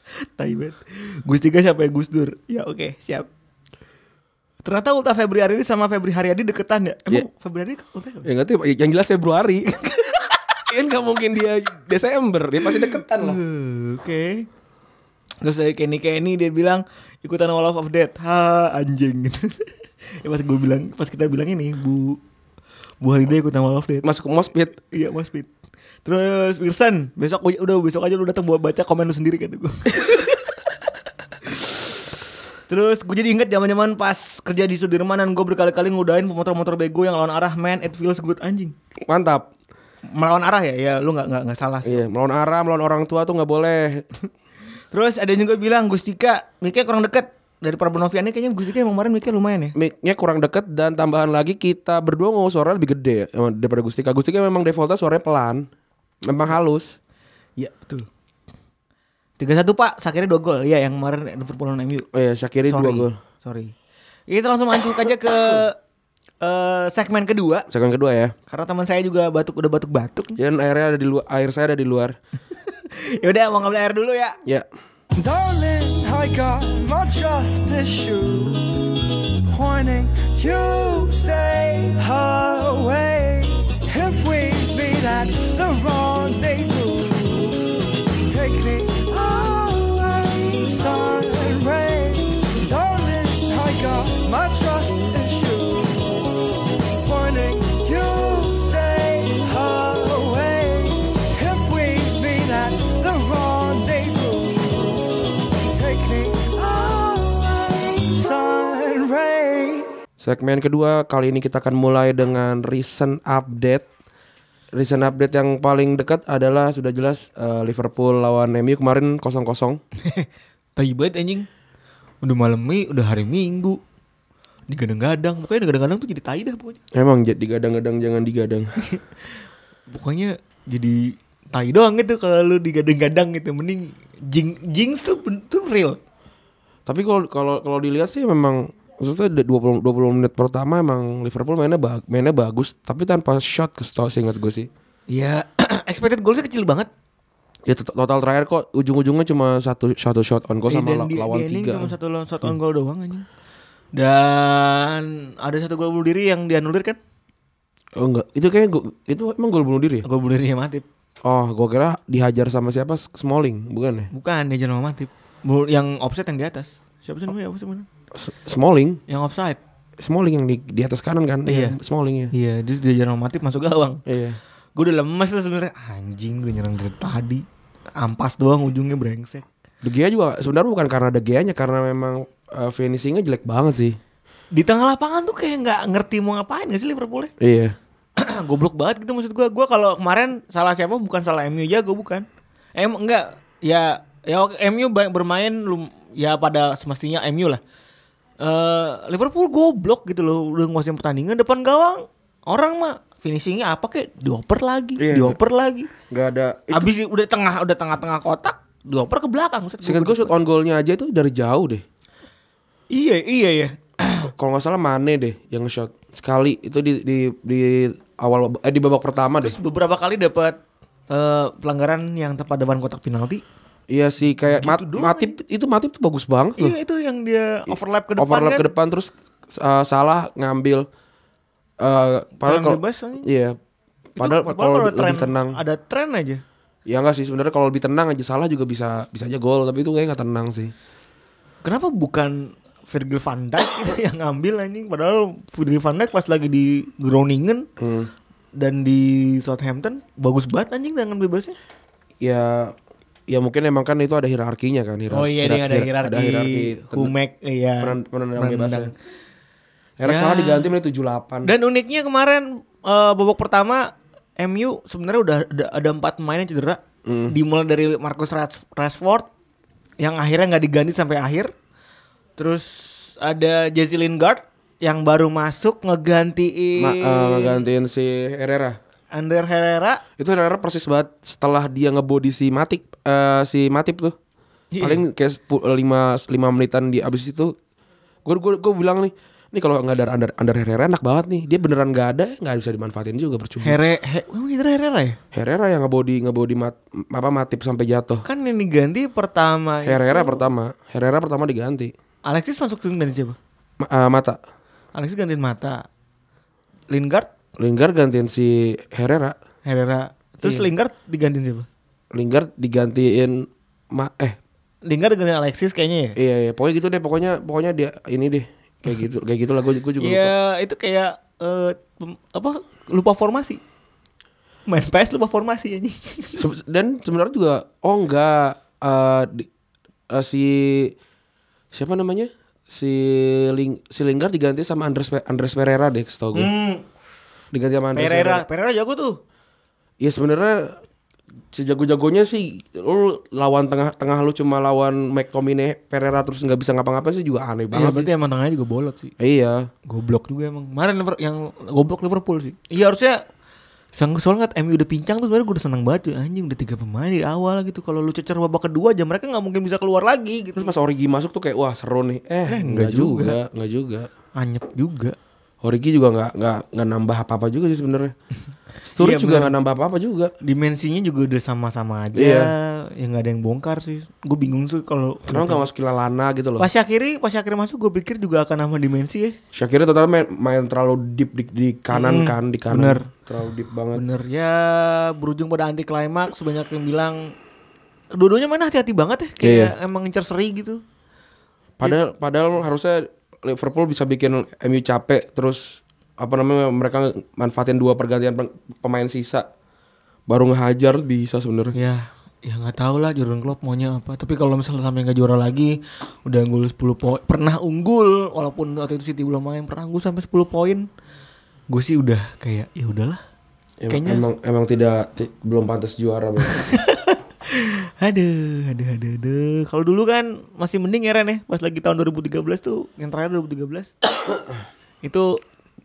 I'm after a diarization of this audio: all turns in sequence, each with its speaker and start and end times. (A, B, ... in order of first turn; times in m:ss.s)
0:00.4-0:03.3 A
0:04.6-0:08.3 A
0:08.2-0:09.8 B
0:09.8-0:10.2 A
0:10.7-0:13.4 B
0:12.8-0:14.5 A
0:15.4-0:19.7 A
0:20.2-0:22.2 A
0:23.0-0:24.1 A
0:24.0-0:24.8 B
0:24.8-0:25.5 A
0:26.0-0:30.6 A
0:31.5-0:32.0 A
0:32.7-0:38.7 A
0:39.1-0:39.5 B
0:40.2-0:42.0 A
0:41.8-0:44.1 B
0:44.9-0:49.8 A
0:49.8-0:55.7 B
0:56.2-0:57.0 B
0:57.6-0:58.1 A
0:59.4-1:02.1 A
1:02.1-1:03.2 B
1:02.7-1:03.7 A
1:04.3-1:05.8 A
1:06.4-1:07.7 A
1:07.7-1:08.3 B
1:08.5-1:10.4 A
1:10.4-1:12.2 B
1:12.6-1:14.4 A
1:15.2-1:18.9 C
1:19.5-1:27.6 C
1:28.2-1:36.4 C
1:37.0-1:49.9 C
1:50.2-1:53.9 B
1:54.7-1:59.8 B
2:00.0-2:01.5 A
2:02.2-2:03.8 A
2:04.7-2:06.8 A
2:06.9-2:08.7 B
2:09.9-2:16.0 A
2:16.9-2:24.7 B
2:25.1-2:26.9 A
2:27.7-2:32.0 B
2:30.7-2:33.3 A
2:34.0-2:37.0 A
2:38.0-2:40.1 B
2:40.0-2:40.8 A
2:41.2-2:44.1 B
2:44.1-2:47.9 A
2:48.1-2:49.0 B
2:49.1-2:49.6 A
2:50.0-2:52.3 B
2:51.5-2:51.8 A
2:52.3-2:54.0 A
2:54.1-2:54.4 B
2:54.8-2:57.4 A
2:58.0-2:59.4 A
2:59.8-3:04.0 B
3:04.5-3:07.3 A
3:07.4-3:07.8 B
3:08.2-3:12.2 A
3:12.8-3:17.6 A
3:18.4-3:25.9 A
3:25.0-3:25.4 B
3:26.1-3:26.9 B
3:26.7-3:30.3 A
3:29.8-3:31.8 B
3:32.9-3:34.3 A
3:34.3-3:39.6 B
3:39.4-3:40.6 A
3:41.1-3:43.4 A
3:43.9-3:46.8 B
3:44.5-3:45.4 A
3:46.6-3:48.7 A
3:48.2-3:50.9 B
3:51.8-3:53.6 B
3:52.4-3:53.3 A
3:54.2-3:55.6 B
3:54.2-3:56.4 A
3:56.9-4:00.7 B
4:01.6-4:07.7 A
4:07.8-4:08.1 B
4:08.6-4:11.6 A
4:12.2-4:12.7 B
4:13.3-4:17.1 B
4:15.1-4:18.9 A
4:17.8-4:18.9 B
4:20.0-4:21.5 B
4:20.0-4:20.7 A
4:21.4-4:29.3 A
4:27.0-4:27.3 B
4:30.0-4:31.5 A
4:32.4-4:37.6 A
4:36.8-4:38.8 B
4:39.1-4:40.0 A
4:40.2-4:44.2 B
4:44.7-4:45.0 A
4:44.8-4:47.6 B
4:48.2-4:53.8 B
4:53.6-4:55.2 A
4:55.3-4:58.2 B
4:58.2-5:00.4 A
4:59.8-5:01.9 B
5:02.3-5:03.4 A
5:03.8-5:04.4 B
5:05.0-5:05.8 A
5:06.9-5:07.3 A
5:07.6-5:09.4 B
5:09.7-5:11.7 A
5:10.4-5:10.7 B
5:12.1-5:14.4 B
5:14.9-5:16.2 A
5:16.2-5:20.3 B
5:20.0-5:23.6 A
5:24.7-5:26.4 A
5:26.4-5:29.5 B
5:30.1-5:31.0 B
5:31.7-5:36.5 B
5:36.3-5:36.8 A
5:37.5-5:38.4 B
5:37.9-5:39.2 A
5:40.0-5:40.8 B
5:41.5-5:48.1 B
5:47.7-5:49.1 A
5:49.2-5:49.7 B
5:49.9-5:53.2 A
5:53.9-6:00.7 A
6:00.6-6:04.1 B
6:02.5-6:03.4 A
6:04.4-6:05.2 A
6:05.6-6:08.1 B
6:08.9-6:10.3 B
6:09.0-6:09.5 A
6:10.4-6:15.7 A
6:12.2-6:12.5 B
6:15.3-6:16.7 B
6:16.6-6:19.4 A
6:19.5-6:24.0 B
6:21.9-6:23.1 A
6:23.9-6:27.3 A
6:28.2-6:30.8 A
6:29.4-6:29.7 B
6:31.8-6:39.5 B
6:40.3-6:41.8 B
6:41.7-6:50.9 A
6:51.7-6:53.2 A
6:53.8-6:56.6 B
6:53.9-6:54.3 A
6:56.5-7:03.9 A
7:05.0-7:05.4 A